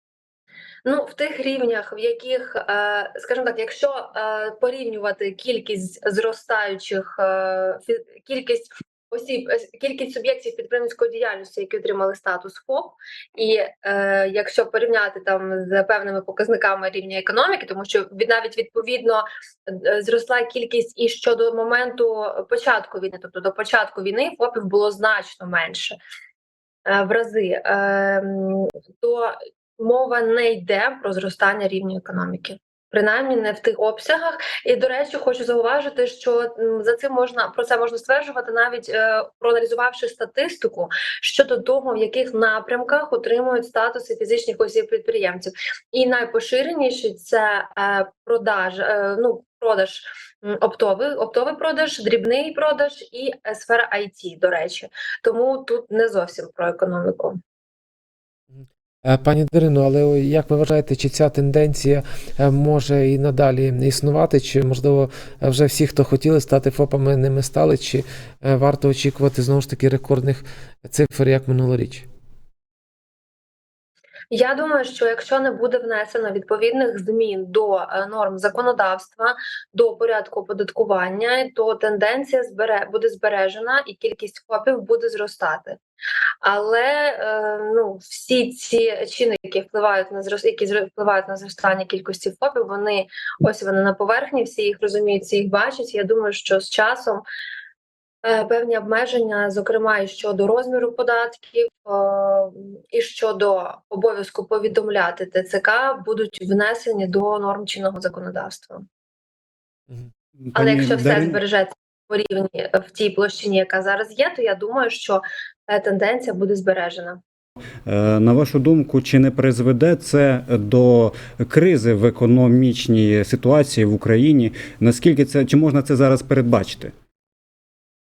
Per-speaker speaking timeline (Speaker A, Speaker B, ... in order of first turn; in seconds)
Speaker A: 0.8-26.0, 26.9-57.4, 74.3-85.8, 86.4-97.2, 98.2-108.8, 110.5-117.2
Speaker B: 58.5-72.1
Speaker C: 110.4-111.4, 117.8-126.9